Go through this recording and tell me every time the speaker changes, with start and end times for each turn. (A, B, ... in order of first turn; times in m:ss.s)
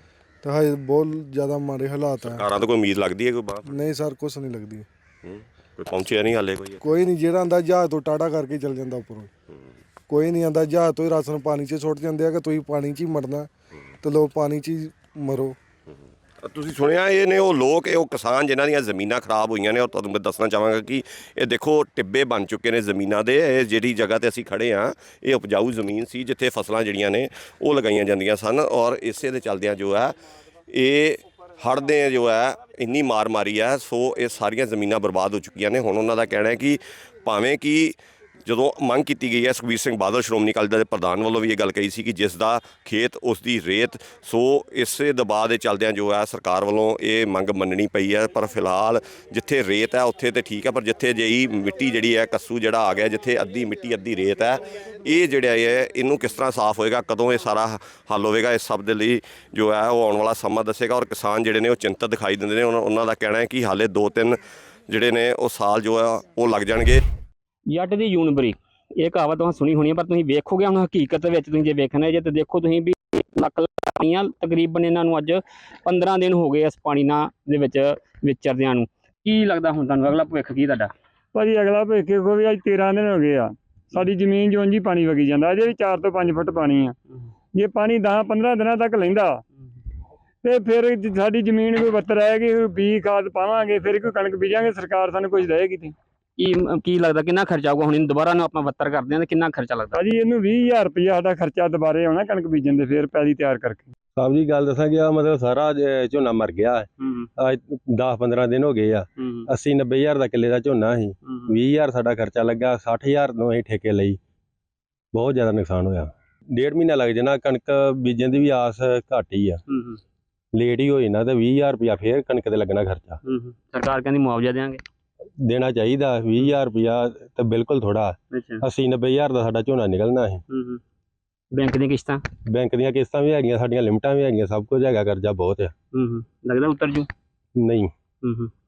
0:00.4-0:02.4 A
0:02.3-0:03.7 B
0:03.6-0:04.9 A
0:05.8-0:06.8 B
0:06.8-0:09.3 A
0:10.1-0:13.5 A
0:14.0-0:15.6 A
0:16.4-0:30.2 B
0:30.7-1:04.4 B
1:04.9-1:07.0 B
1:07.7-1:20.9 C
1:21.4-1:26.9 D
1:27.6-1:29.4 D
1:30.4-1:35.9 D
1:36.4-1:40.0 C
1:39.9-1:43.9 D
1:44.2-1:54.2 E
1:47.0-1:47.3 C
1:49.2-1:49.5 C
1:51.2-1:51.6 C
1:55.1-1:59.6 E
1:59.7-2:00.0 C
2:00.5-2:03.2 E
2:03.2-2:04.8 C
2:05.4-2:10.4 E
2:08.3-2:08.6 C
2:10.5-2:10.8 C
2:11.5-2:12.2 C
2:12.5-2:15.7 E
2:15.9-2:17.1 C
2:17.6-2:17.9 E
2:18.2-2:18.5 C